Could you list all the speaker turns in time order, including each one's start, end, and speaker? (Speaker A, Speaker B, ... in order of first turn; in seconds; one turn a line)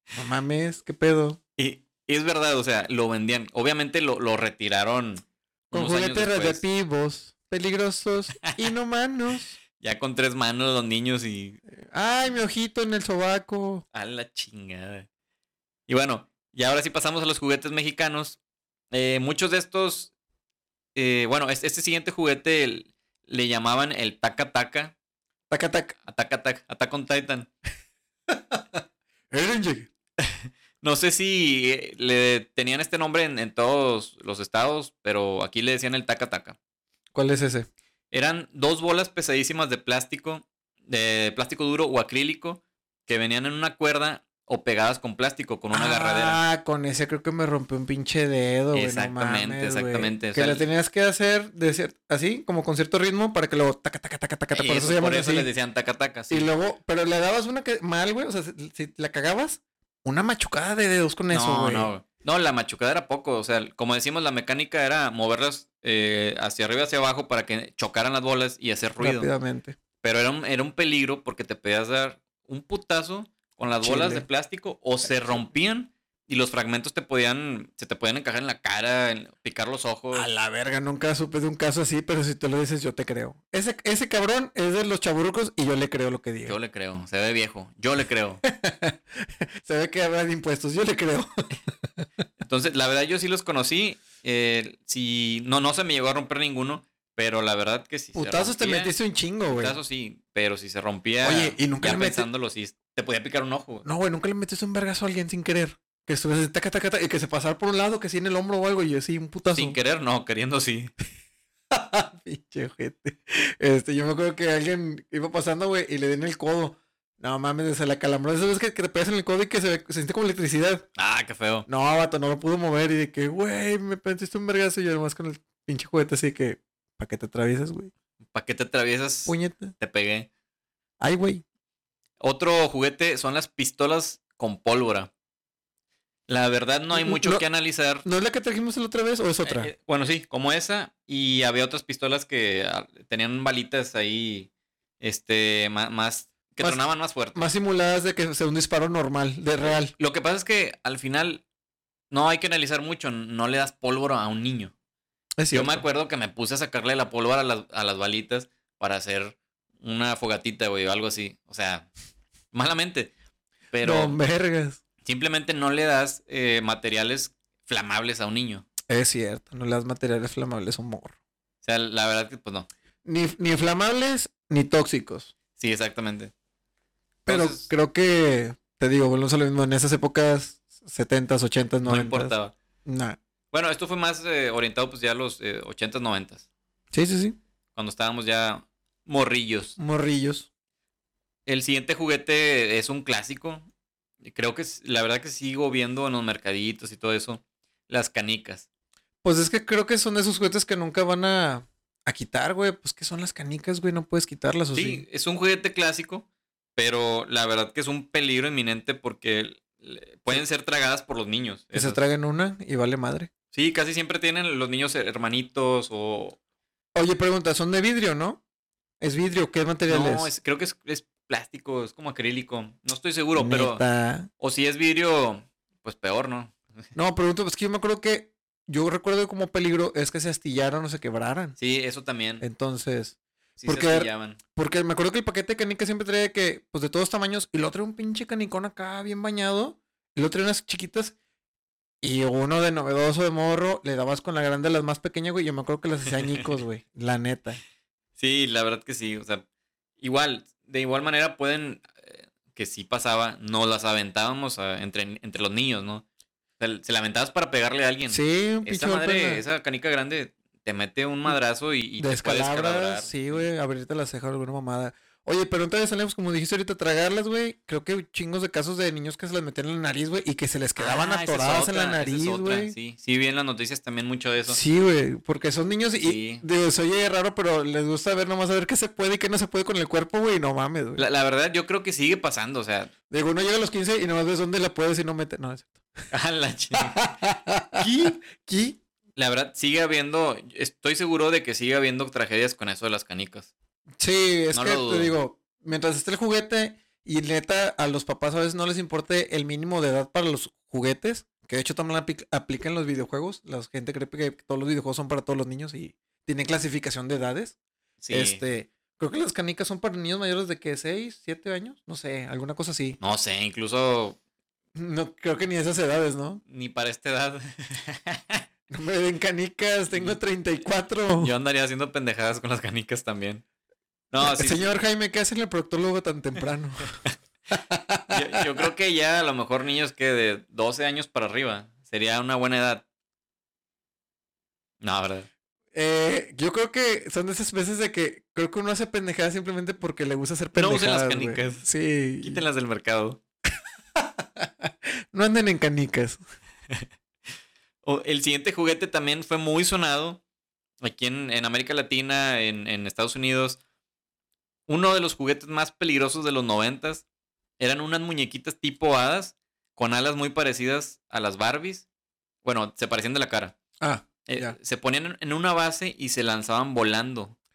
Speaker A: 0.1-1.4
Speaker B: 1.6-6.6
Speaker A: 5.7-9.6
Speaker B: 9.8-11.6
Speaker A: 11.8-13.8
Speaker B: 13.9-15.1
Speaker B: 15.9-18.4
Speaker B: 18.9-20.1
Speaker B: 20.9-24.9
Speaker A: 25.5-25.9
Speaker B: 26.1-27.5
Speaker A: 28.3-28.8
Speaker A: 29.3-29.9
Speaker B: 30.2-36.6
Speaker A: 37.1-37.7
Speaker B: 38.1-46.4
Speaker A: 45.7-55.5
Speaker B: 48.7-50.6
Speaker B: 54.5-56.5
Speaker A: 56.3-61.9
Speaker B: 61.3-69.3
Speaker A: 69.0-69.8
Speaker B: 70.0-80.3
Speaker A: 73.8-74.2
Speaker A: 75.1-75.5
Speaker A: 80.1-86.6
Speaker B: 86.5-88.4
Speaker A: 88.4-91.3
Speaker B: 92.4-98.9
Speaker A: 98.1-99.8
Speaker B: 99.5-103.8
Speaker A: 101.2-102.3
Speaker A: 103.8-109.8
Speaker B: 109.5-110.9
Speaker A: 111.7-120.9
Speaker B: 121.0-121.7
Speaker A: 121.7-127.9
Speaker B: 128.3-130.3
Speaker A: 129.2-129.7
Speaker A: 131.0-131.4
Speaker B: 132.2-135.1
Speaker B: 136.3-138.0
Speaker A: 136.9-137.4
Speaker A: 138.0-139.7
Speaker B: 139.4-144.5
Speaker B: 145.0-147.5
Speaker A: 147.3-149.9
Speaker B: 149.6-151.4
Speaker B: 152.1-154.7
Speaker A: 155.4-155.8
Speaker B: 155.5-161.9
Speaker B: 162.5-163.1
Speaker B: 163.7-164.2
Speaker A: 163.8-164.8
Speaker B: 165.0-168.7
Speaker A: 168.9-171.1
Speaker B: 171.6-172.7
Speaker A: 173.0-175.3
Speaker B: 175.6-176.3
Speaker B: 177.2-177.7
Speaker A: 177.3-182.3
Speaker B: 181.8-182.5
Speaker A: 182.8-183.2
Speaker B: 183.5-186.4
Speaker A: 186.9-187.4
Speaker B: 187.7-189.8
Speaker A: 189.8-190.5
Speaker B: 191.4-193.7
Speaker B: 194.2-198.7
Speaker A: 199.2-205.0
Speaker B: 204.7-206.2
Speaker B: 206.8-212.0
Speaker A: 211.7-213.3
Speaker B: 213.5-216.4
Speaker A: 216.9-218.4
Speaker A: 219.0-220.3
Speaker B: 219.9-223.8
Speaker A: 223.3-224.3
Speaker B: 224.4-226.6
Speaker A: 226.9-231.6
Speaker B: 231.6-232.4
Speaker A: 232.4-241.2
Speaker B: 233.6-234.4
Speaker A: 242.0-247.6
Speaker B: 248.2-249.4
Speaker B: 250.0-256.0
Speaker B: 256.6-263.4
Speaker A: 258.1-259.4
Speaker A: 262.0-272.8
Speaker B: 270.8-274.6
Speaker A: 274.5-281.0
Speaker B: 276.0-276.4
Speaker B: 281.0-282.9
Speaker A: 283.1-285.8
Speaker B: 286.1-287.1
Speaker A: 286.7-288.8
Speaker B: 287.8-288.1
Speaker B: 289.1-293.5
Speaker A: 294.0-307.6
Speaker B: 294.5-295.1
Speaker B: 308.0-308.4
Speaker A: 308.1-313.0
Speaker B: 313.0-314.2
Speaker A: 314.8-316.4
Speaker B: 316.5-318.4
Speaker A: 318.7-321.3
Speaker B: 319.9-320.2
Speaker B: 321.1-323.4
Speaker B: 324.1-324.7
Speaker A: 324.2-328.4
Speaker B: 328.1-332.8
Speaker B: 334.8-335.3
Speaker A: 335.7-342.4
Speaker B: 340.5-341.6
Speaker B: 342.2-343.2
Speaker A: 344.0-346.2
Speaker B: 347.8-350.2
Speaker B: 350.8-353.6
Speaker B: 354.7-357.0
Speaker B: 357.6-361.9
Speaker B: 362.4-363.6
Speaker A: 363.8-364.6
Speaker B: 364.2-367.3